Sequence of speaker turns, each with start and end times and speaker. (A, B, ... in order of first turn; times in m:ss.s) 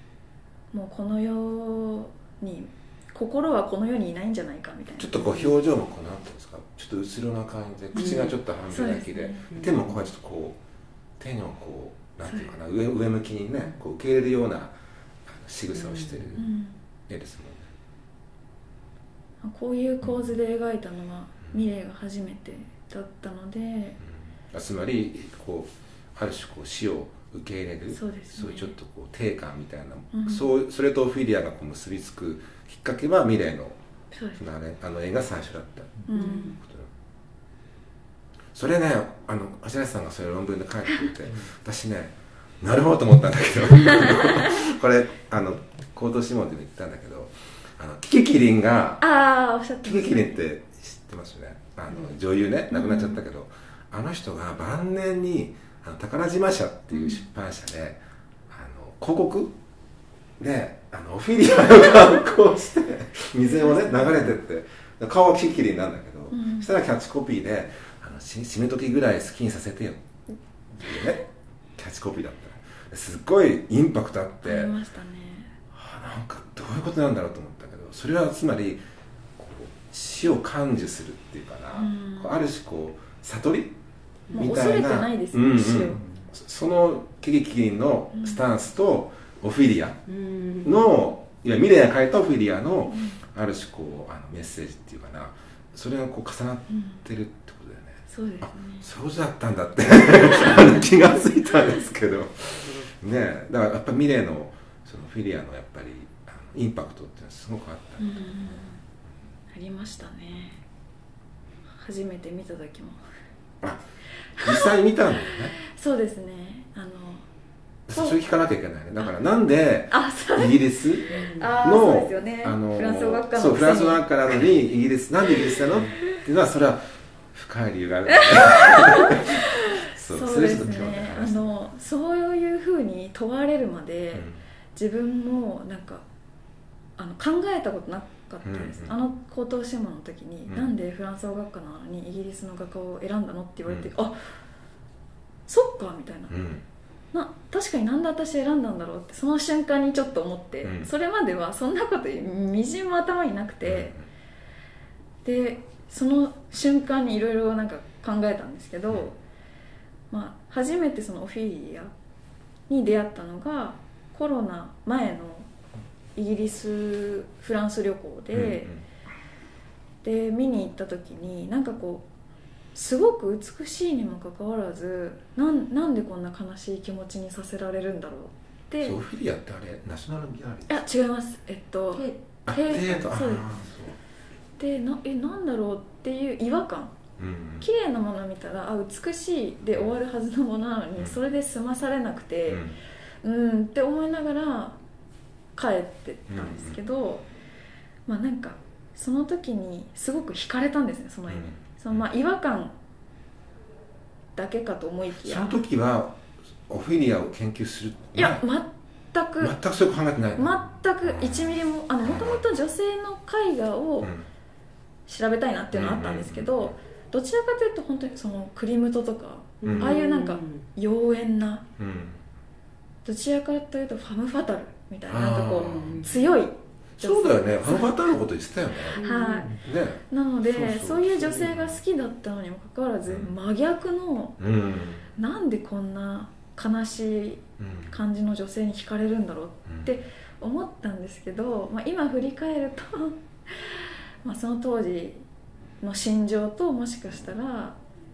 0:00.7-0:05.5 A
0:05.0-0:10.6 B
0:07.9-0:09.5 A
0:08.0-0:08.3 C
0:09.5-0:09.8 C
0:11.2-0:14.7 B
0:15.2-0:16.5 B
0:15.8-0:16.3 C
0:16.4-0:16.8 A
0:17.1-0:17.7 B
0:19.4-0:24.0 A
0:24.5-0:33.8 B
0:27.9-0:28.7 A
0:30.1-0:30.4 A
0:34.1-0:34.4 A
0:34.4-0:36.9 B
0:36.1-0:36.6 A
0:36.2-0:36.6 C
0:38.5-0:49.0 B
0:43.9-0:44.5 A
0:49.0-0:50.4 A
0:49.8-0:59.5 B
0:52.7-0:53.2 A
0:56.9-0:57.2 A
1:00.4-1:10.0 B
1:06.3-1:06.7 A
1:10.8-1:11.2 B
1:11.8-1:14.7 B
1:14.4-1:15.5 A
1:15.7-1:18.8 B
1:19.4-1:23.8 B
1:21.7-1:22.4 A
1:24.3-1:26.0 A
1:24.3-1:30.0 B
1:28.1-1:28.4 A
1:30.1-1:30.9 C
1:30.6-1:48.2 B
1:32.9-1:33.2 A
1:36.7-1:37.0 A
1:38.1-1:38.8 A
1:40.4-1:40.8 A
1:48.0-1:48.8 A
1:49.5-1:50.6 A
1:51.8-1:53.0 A
1:54.4-1:54.7 A
1:54.4-1:55.5 B
1:55.3-1:57.2 A
1:57.9-2:06.8 B
1:59.9-2:00.6 A
2:01.1-2:01.5 C
2:01.1-2:04.0 A
2:07.3-2:11.6 B
2:08.1-2:16.0 A
2:14.1-2:14.4 B
2:17.0-2:24.3 A
2:18.4-2:19.0 B
2:25.5-2:26.3 A
2:26.3-2:26.6 B
2:27.1-2:33.9 A
2:30.6-2:30.9 B
2:33.6-2:34.0 B
2:35.2-2:39.2 A
2:40.1-2:41.9 A
2:42.7-2:45.5 A
2:46.2-2:48.7 A
2:48.3-2:48.8 B
2:50.0-2:52.0 A
2:52.7-2:59.0 A
2:58.8-3:00.8 B
3:00.7-3:03.5 A
3:01.9-3:02.2 C
3:02.4-3:04.0 B
3:02.7-3:03.0 C
3:04.6-3:06.9 A
3:07.2-3:07.6 B
3:07.6-3:12.6 A
3:12.5-3:12.7 B
3:13.2-3:14.8 A
3:15.5-3:17.2 A
3:16.3-3:16.8 B
3:18.1-3:22.7 A
3:21.3-3:22.0 B
3:24.3-3:25.6 A
3:25.2-3:28.4 B
3:28.1-3:29.5 A
3:29.4-3:32.4 B
3:30.4-3:34.1 A
3:35.1-3:41.6 A
3:35.7-3:36.7 B
3:39.6-3:40.6 C
3:39.6-3:40.0 B
3:41.8-3:42.2 B
3:43.0-3:48.0 A
3:45.1-3:46.1 B
3:45.6-3:46.1 C
3:47.0-3:49.0 B
3:48.9-3:49.6 C
3:49.0-3:49.6 A
3:49.6-3:51.8 B
3:50.1-3:54.4 A
3:54.4-3:55.1 B
3:55.2-4:05.2 A
3:57.6-3:57.9 B
3:59.7-3:59.9 B
4:05.8-4:07.8 A